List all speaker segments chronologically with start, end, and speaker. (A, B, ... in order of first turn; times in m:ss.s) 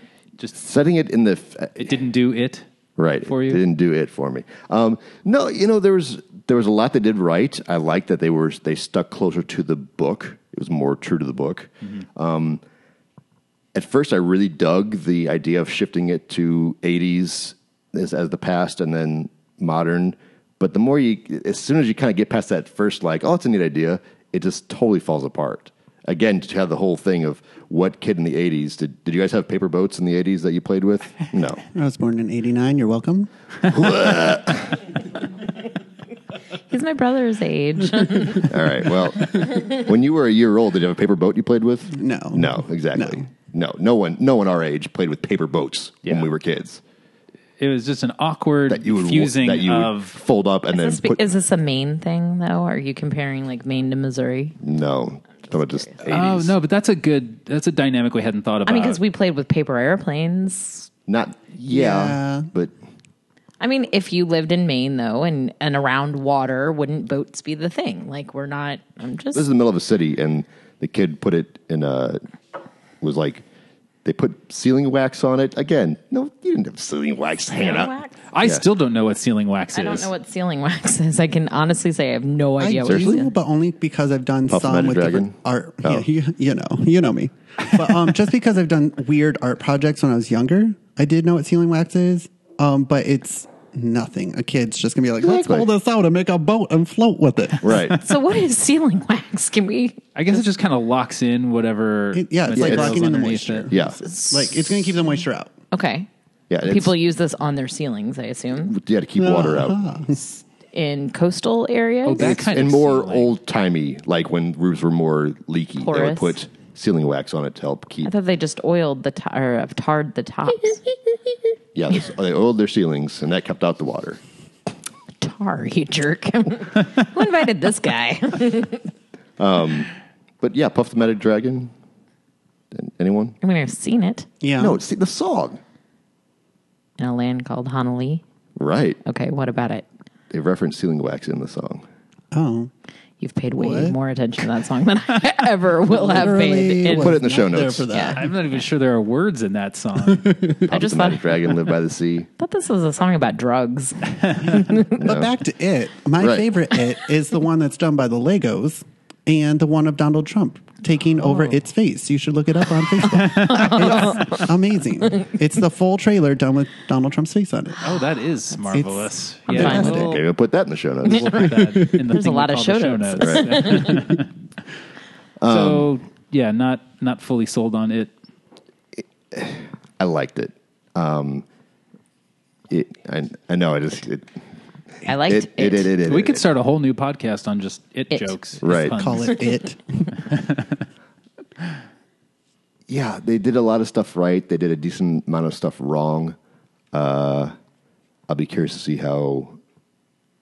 0:00.5-0:02.0 A
0:01.8-0:02.7 B
0:03.0-0:12.6 A
0:03.2-0:03.6 B
0:13.7-0:31.6 A
0:31.7-0:33.3 C
0:33.7-0:35.0 A
0:36.7-0:38.5 D
0:38.4-0:46.8 A
0:41.9-0:43.3 C
0:46.0-0:46.3 B
0:47.6-0:50.2 B
0:48.7-0:51.3 A
0:50.7-0:54.6 D
0:54.6-0:56.6 A
0:55.4-0:56.0 D
0:56.1-0:59.0 B
0:58.6-1:00.9 D
1:01.1-1:02.7 A
1:01.7-1:02.5 C
1:03.6-1:09.4 D
1:09.3-1:12.2 A
1:13.0-1:13.4 A
1:14.0-1:18.6 A
1:17.5-1:18.2 D
1:18.3-1:20.1 B
1:19.7-1:23.3 D
1:22.6-1:37.8 C
1:22.9-1:23.1 A
1:24.5-1:26.0 A
1:35.2-1:35.7 A
1:37.6-1:38.0 A
1:37.9-1:40.0 D
1:40.1-1:43.8 B
1:42.1-1:45.5 C
1:42.6-1:43.1 A
1:43.7-1:44.0 A
1:44.0-1:46.1 D
1:46.5-1:46.9 A
1:46.6-1:48.7 D
1:48.6-1:49.8 A
1:49.2-1:50.2 C
1:50.2-1:52.4 D
1:52.0-1:53.3 B
1:52.2-1:58.1 A
1:55.8-1:56.4 D
1:58.0-2:00.9 D
2:01.7-2:04.2 A
2:05.2-2:08.9 D
2:09.4-2:11.7 A
2:12.7-2:13.4 A
2:13.4-2:14.2 D
2:14.4-2:14.8 C
2:14.6-2:15.6 A
2:17.0-2:18.2 D
2:18.6-2:19.0 A
2:19.0-2:19.8 D
2:20.3-2:21.8 A
2:22.3-2:22.7 C
2:23.2-2:27.2 D
2:23.6-2:24.0 C
2:25.9-2:28.3 C
2:26.9-2:27.9 A
2:27.9-2:28.2 D
2:28.1-2:30.4 B
2:30.1-2:30.5 C
2:30.6-2:32.3 A
2:30.7-2:31.3 D
2:32.4-2:34.9 D
2:35.0-2:35.3 A
2:35.0-2:47.9 C
2:36.2-2:36.5 A
2:41.2-2:41.5 B
2:43.1-2:44.1 B
2:43.5-2:44.2 D
2:47.8-2:50.2 B
2:48.7-2:50.1 C
2:49.5-2:50.1 D
2:49.5-2:51.4 A
2:51.0-2:54.3 B
2:51.1-2:54.1 D
2:53.2-2:53.4 A
2:55.4-2:55.9 A
2:55.4-2:58.1 B
2:59.3-3:01.4 A
3:02.7-3:04.3 A
3:05.0-3:05.9 D
3:05.1-3:06.4 A
3:06.0-3:09.4 B
3:08.6-3:09.0 A
3:08.9-3:10.1 C
3:10.2-3:10.8 B
3:12.9-3:16.4 A
3:16.9-3:17.5 A
3:18.3-3:19.6 A